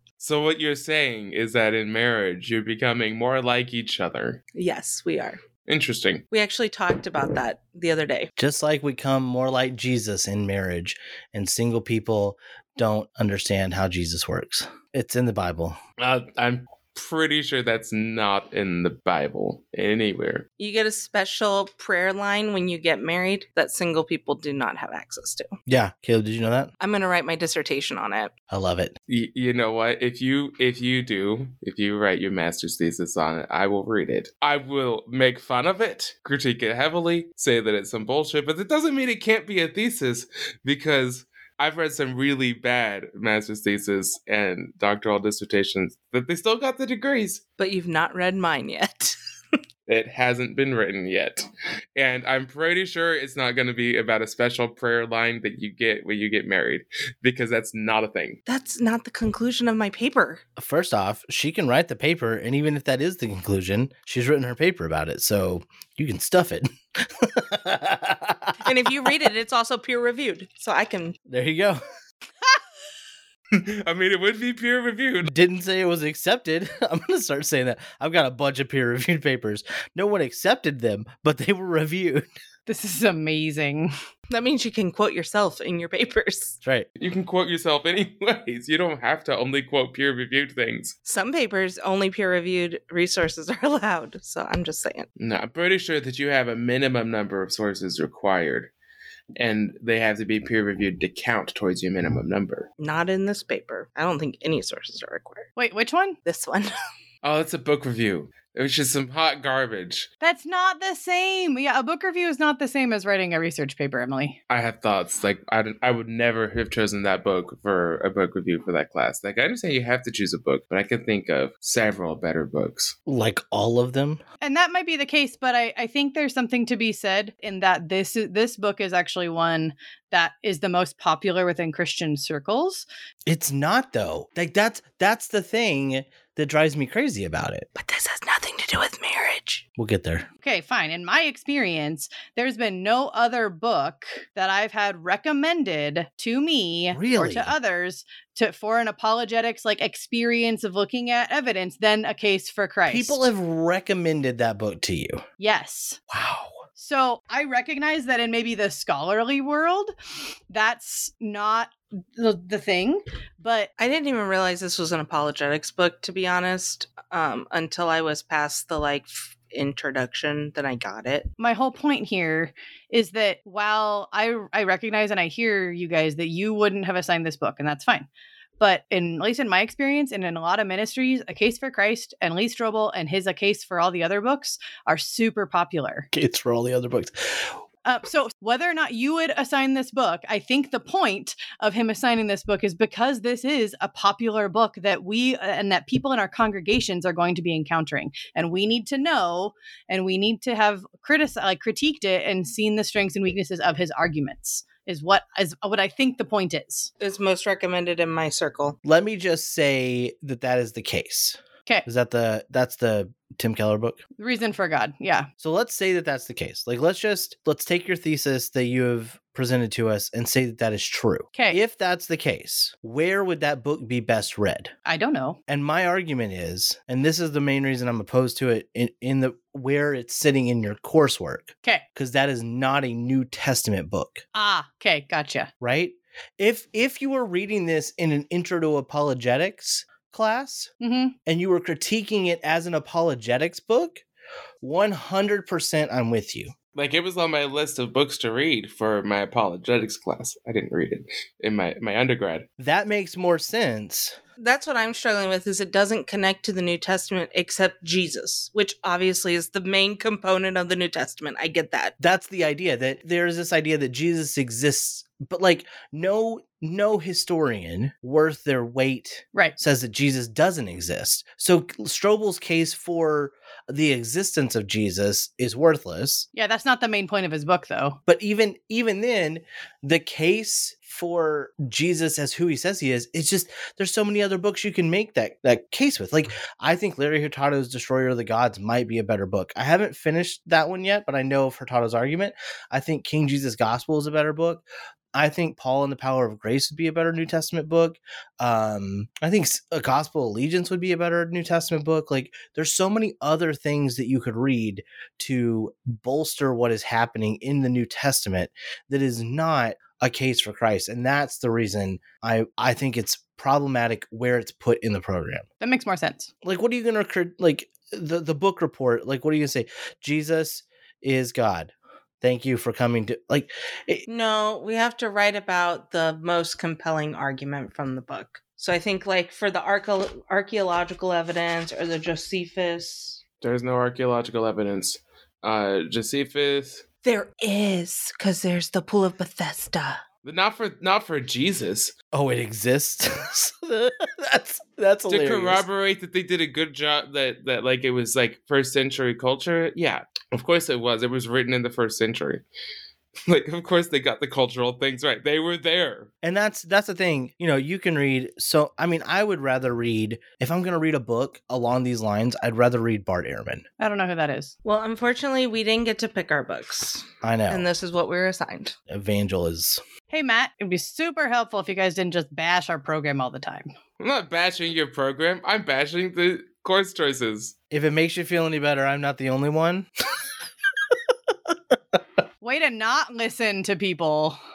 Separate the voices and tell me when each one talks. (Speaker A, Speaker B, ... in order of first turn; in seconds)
Speaker A: 0.2-4.4, 5.7-6.2, 16.0-20.4, 29.1-47.4, 49.9-58.4, 73.5-75.3, 87.0-90.9, 95.2-98.7, 99.4-102.7, 107.2-110.1, 114.5-123.0, 246.7-252.5, 333.4-336.8, 340.2-341.9, 345.1-352.4, 353.2-356.1, 374.0-377.5
Speaker B: 4.5-5.4, 6.3-8.3, 20.6-25.5, 26.8-28.3, 47.6-49.1, 58.5-60.4, 68.6-71.2, 84.3-86.6, 91.0-95.1, 102.8-105.5, 106.2-106.7, 137.8-139.6, 163.8-171.3, 207.0-208.8, 254.4-261.9, 324.1-333.2, 337.0-340.0, 364.6-368.8
Speaker C: 8.4-15.8, 25.7-26.7, 28.5-28.9, 60.6-69.1, 71.3-71.8, 75.2-82.2, 123.0-124.2, 133.2-137.7, 139.8-140.3, 146.9-147.5, 152.9-155.2, 156.1-156.5, 186.1-187.5, 208.8-214.0, 215.4-224.7, 225.5-234.2, 235.6-240.7, 241.2-244.0, 244.6-246.5, 252.6-254.2, 262.0-276.3, 278.1-294.6, 295.1-315.4, 316.4-324.0, 342.1-345.6, 356.2-363.6, 367.2-367.7, 368.9-369.8, 377.7-379.9
Speaker D: 82.7-83.9, 105.6-106.2, 110.2-114.4, 124.4-132.8, 140.4-153.2, 155.4-156.0, 156.8-159.9, 160.5-163.7, 171.4-178.1, 178.6-186.1, 187.8-206.9, 214.2-215.3, 221.3-221.6, 224.8-225.4, 234.3-235.5, 240.8-241.1, 276.3-278.0, 315.6-316.3, 363.8-364.5, 370.1-373.7, 382.4-384.4